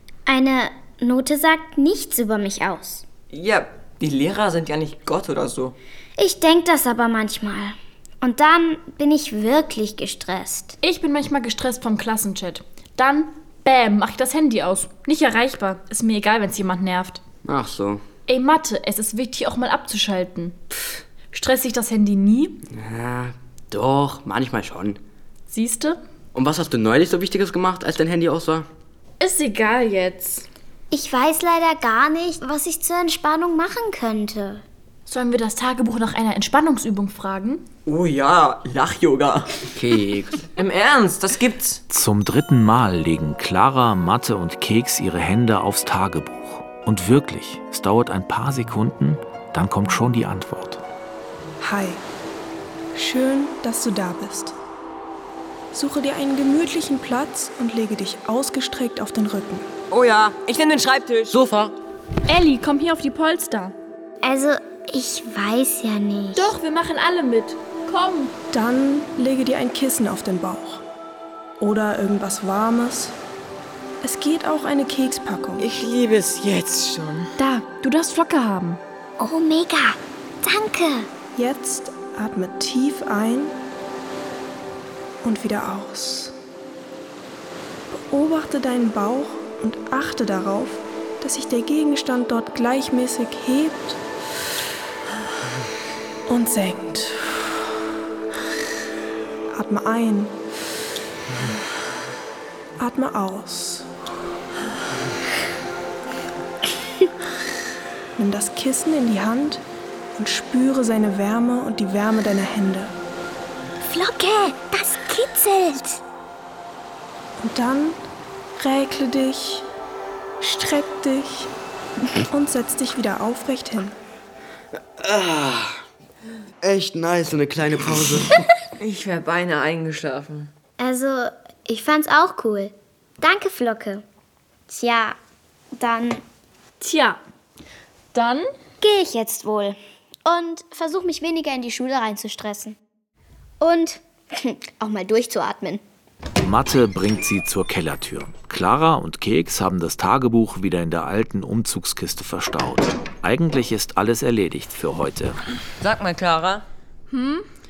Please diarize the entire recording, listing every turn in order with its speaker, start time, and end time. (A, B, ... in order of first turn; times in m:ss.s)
0:00.3-0:03.0 A
0:03.3-0:05.8 B
0:06.2-0:10.8 A
0:10.8-0:17.2 C
0:17.4-0:18.0 D
0:18.3-0:20.6 C
0:21.3-0:22.6 C
0:22.7-0:25.0 D
0:25.5-0:26.0 C
0:26.4-0:28.7 D
0:29.2-0:30.5 C
0:30.9-0:34.6 A
0:35.1-0:37.6 C
0:37.9-0:39.6 B
0:39.8-0:40.5 D
0:40.5-0:41.8 B
0:41.9-0:50.8 E
0:51.6-0:52.0 F
0:53.0-0:54.6 F
0:55.7-0:59.7 F
0:59.9-1:01.3 B
1:01.3-1:01.8 D
1:02.3-1:03.8 C
1:04.2-1:06.5 A
1:06.4-1:08.3 C
1:08.5-1:10.8 F
1:11.6-1:13.1 F
1:14.0-1:15.7 F
1:15.6-1:17.3 B
1:17.4-1:18.8 C
1:19.2-1:21.1 A
1:21.4-1:23.6 F
1:25.2-1:26.3 F
1:27.9-1:34.0 F
1:36.3-1:37.3 F
1:39.5-1:40.3 F
1:42.8-1:43.9 F
1:48.2-1:49.6 F
1:50.2-1:52.9 F
1:53.9-1:55.9 A
1:57.4-1:58.0 F
1:58.6-1:59.6 F
2:00.4-2:01.5 F
2:02.3-2:03.9 F
2:05.0-2:05.8 D
2:06.6-2:08.4 D
2:08.8-2:10.5 B
2:10.8-2:14.0 A
2:14.7-2:15.2 A
2:15.7-2:16.2 A
2:16.8-2:17.2 C
2:18.1-2:18.5 C
2:18.8-2:22.8 A
2:23.6-2:25.8 A
2:26.4-2:35.4 E
2:35.8-2:36.6 B
2:37.1-2:37.4 C